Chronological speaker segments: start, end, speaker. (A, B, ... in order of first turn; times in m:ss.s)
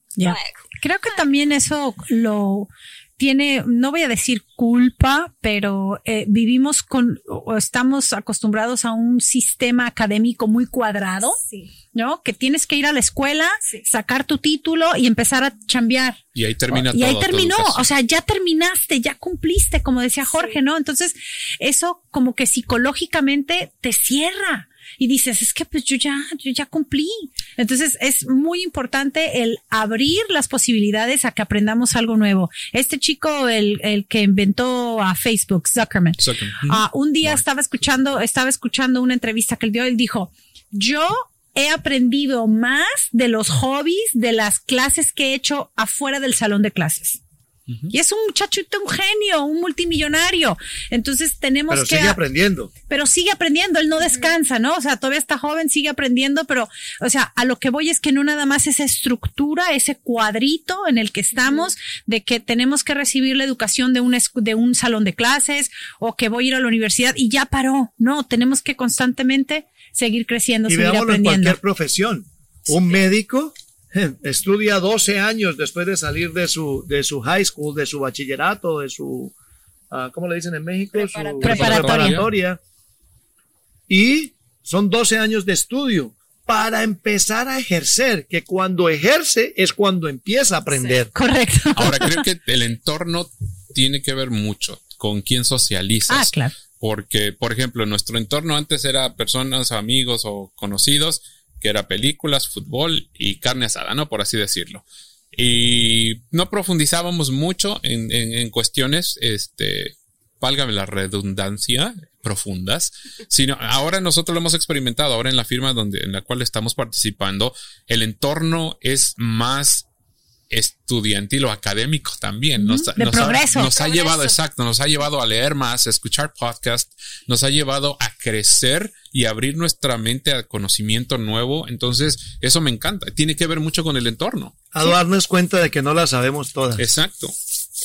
0:00.2-0:11.4 A
0:00.2-0:01.2 B
0:11.3-0:11.7 B
0:11.9-0:16.2 A
0:13.6-0:13.9 B
0:16.3-0:17.8 C
0:16.7-0:47.2 A
0:20.3-0:20.6 B
0:36.2-0:37.4 C
0:47.9-0:52.2 A
0:51.7-0:52.7 D
0:52.9-1:11.6 A
0:54.0-0:54.3 B
1:01.4-1:01.7 B
1:10.7-1:19.3 D
1:12.6-1:13.0 B
1:19.9-1:22.6 D
1:20.9-1:22.0 B
1:21.4-1:22.2 A
1:21.4-1:22.3 C
1:23.9-1:31.1 D
1:30.7-1:31.0 B
1:31.1-1:32.2 A
1:31.8-1:44.8 C
1:36.1-1:36.5 A
1:45.3-1:59.9 C
2:00.5-2:14.5 C
2:02.6-2:03.7 A
2:03.3-2:04.4 B
2:14.7-2:16.8 D
2:16.8-2:17.3 C